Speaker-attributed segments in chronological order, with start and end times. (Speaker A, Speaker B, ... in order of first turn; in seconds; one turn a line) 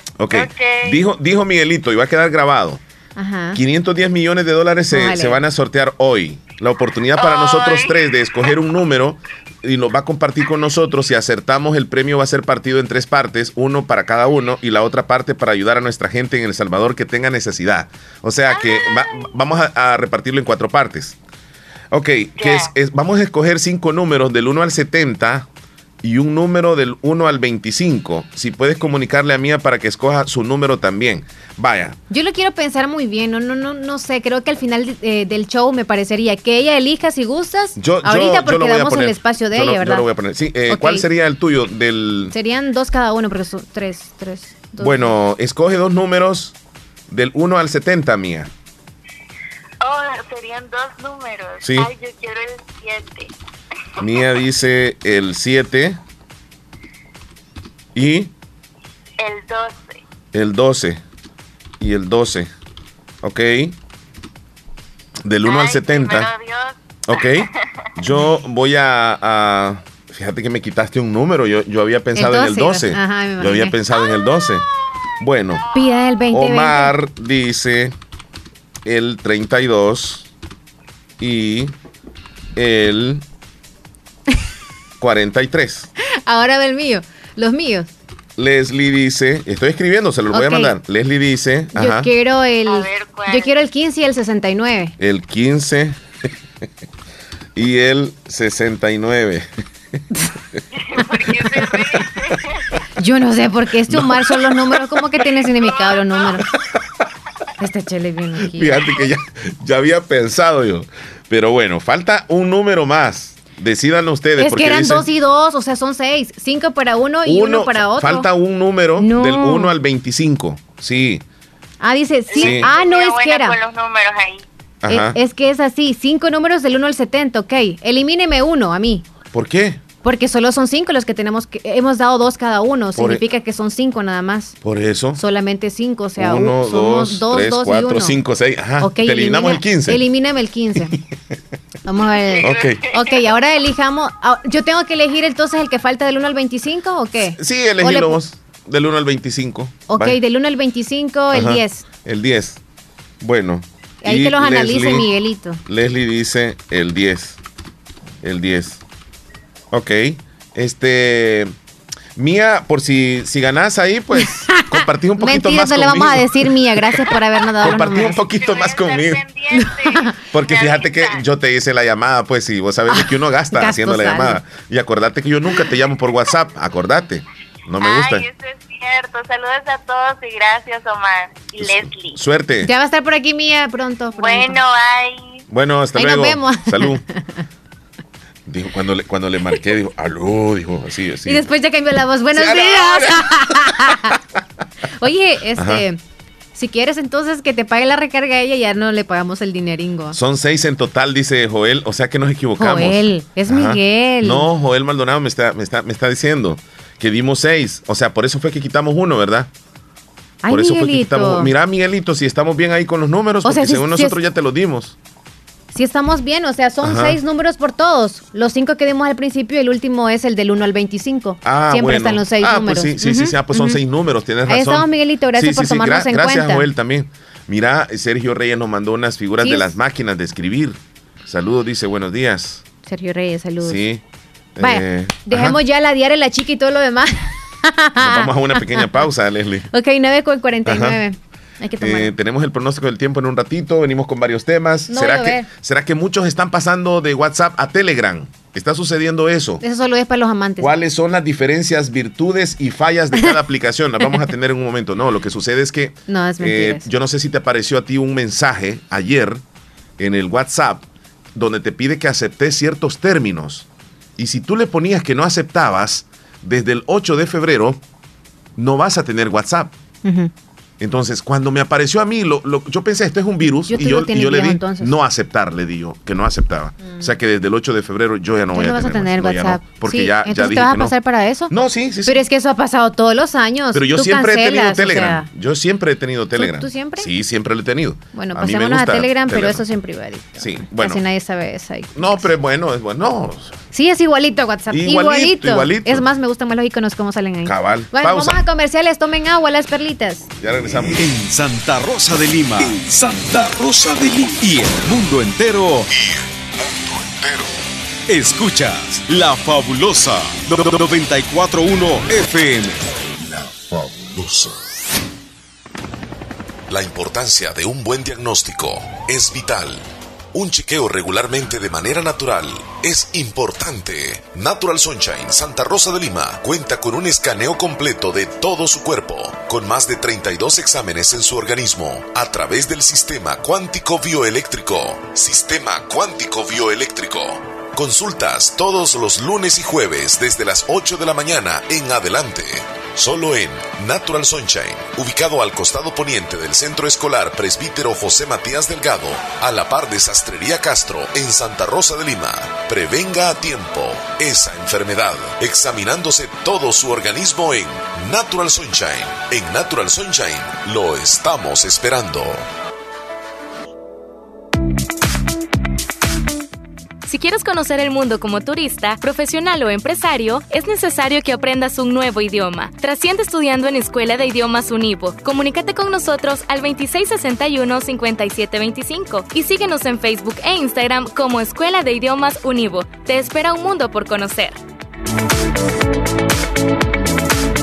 Speaker A: 0.2-2.8
Speaker B: 0.3-1.0
Speaker C: 3.2-3.6
Speaker A: 3.5-21.1
Speaker C: 4.9-5.4
Speaker B: 7.2-8.6
Speaker B: 18.5-19.3
Speaker A: 21.9-25.4
Speaker B: 22.4-22.7
Speaker A: 26.0-32.0
Speaker C: 32.1-40.1
Speaker A: 37.8-42.3
Speaker C: 40.7-41.0
Speaker C: 42.3-45.2
Speaker A: 44.8-46.5
Speaker A: 47.1-48.5
Speaker B: 49.8-53.3
Speaker A: 51.6-51.9
Speaker A: 54.0-56.0
Speaker A: 58.0-58.3
Speaker B: 59.2-60.0
Speaker A: 60.3-61.0
Speaker A: 61.8-62.5
Speaker A: 63.2-63.7
Speaker A: 65.2-66.3
Speaker B: 65.5-67.5
Speaker A: 67.1-67.5
Speaker A: 68.0-74.6
Speaker C: 72.2-73.8
Speaker A: 75.2-75.6
Speaker C: 75.7-77.0
Speaker A: 76.3-77.9
Speaker A: 78.9-80.3
Speaker A: 81.2-81.7
Speaker A: 82.6-83.2
Speaker A: 85.0-85.9
Speaker C: 86.3-87.9
Speaker A: 88.4-92.1
Speaker C: 90.3-90.8
Speaker C: 91.8-95.0
Speaker B: 92.7-93.5
Speaker A: 95.0-96.0
Speaker A: 97.6-99.5
Speaker B: 100.9-102.6
Speaker C: 103.0-106.5
Speaker A: 103.9-104.6
Speaker B: 105.6-106.3
Speaker C: 107.6-108.8
Speaker A: 108.5-115.1
Speaker C: 114.4-118.3
Speaker A: 117.3-121.2
Speaker C: 119.0-119.8
Speaker C: 121.8-123.6
Speaker B: 122.3-124.5
Speaker A: 122.4-122.7
Speaker A: 124.8-125.2
Speaker C: 124.9-129.1
Speaker A: 129.3-129.8
Speaker C: 130.0-134.5
Speaker A: 132.9-133.2
Speaker A: 134.6-135.2
Speaker C: 135.2-138.2
Speaker A: 136.2-140.0
Speaker C: 138.8-140.9
Speaker C: 141.8-148.2
Speaker B: 142.4-143.3
Speaker A: 142.4-142.8
Speaker A: 147.3-150.2
Speaker C: 149.9-151.9
Speaker A: 151.3-152.6
Speaker A: 153.2-155.1
Speaker C: 154.0-155.6
Speaker A: 155.7-157.4
Speaker A: 158.2-158.8
Speaker A: 159.7-161.5
Speaker A: 162.2-166.3
Speaker C: 164.1-168.2
Speaker A: 167.6-169.2
Speaker B: 168.3-171.2
Speaker C: 169.5-170.1
Speaker A: 170.3-178.2
Speaker C: 172.9-174.4
Speaker B: 177.8-182.2
Speaker A: 181.6-182.7
Speaker C: 182.6-184.6
Speaker B: 184.2-185.4
Speaker A: 185.5-187.0
Speaker C: 185.9-187.4
Speaker A: 188.5-191.4
Speaker C: 191.2-194.2
Speaker A: 192.3-193.2
Speaker C: 195.0-196.0
Speaker A: 195.6-195.8
Speaker C: 196.5-200.2
Speaker A: 200.1-209.5
Speaker C: 202.6-204.5
Speaker C: 210.4-211.5
Speaker A: 210.5-214.9
Speaker C: 213.4-214.2
Speaker C: 215.7-223.8
Speaker A: 216.8-217.2
Speaker A: 221.4-232.6
Speaker C: 224.4-226.7
Speaker C: 229.4-229.8
Speaker C: 232.8-233.8
Speaker A: 233.6-234.0
Speaker A: 234.6-235.6
Speaker C: 234.6-239.0
Speaker A: 238.0-239.7
Speaker C: 239.7-242.1
Speaker A: 240.7-241.0
Speaker A: 241.8-249.6
Speaker C: 244.9-245.5
Speaker C: 249.6-250.8
Speaker A: 250.6-259.4
Speaker C: 253.1-253.4
Speaker C: 256.1-256.9
Speaker A: 260.0-260.8
Speaker A: 261.4-263.7
Speaker A: 264.2-267.8
Speaker A: 268.6-269.7
Speaker C: 270.0-270.3
Speaker A: 270.8-280.9
Speaker C: 273.4-275.0
Speaker C: 276.8-277.1
Speaker C: 278.5-281.5
Speaker A: 281.5-282.2
Speaker C: 282.1-285.3
Speaker A: 283.7-289.6
Speaker C: 286.4-287.1
Speaker C: 288.1-292.3
Speaker A: 290.4-291.0
Speaker A: 292.0-293.6
Speaker C: 293.7-300.3
Speaker A: 294.7-296.1
Speaker A: 297.4-298.4
Speaker A: 300.4-301.0
Speaker D: 300.8-305.9
Speaker A: 307.0-307.4
Speaker D: 308.1-312.9
Speaker A: 316.7-362.4
Speaker E: 367.1-384.6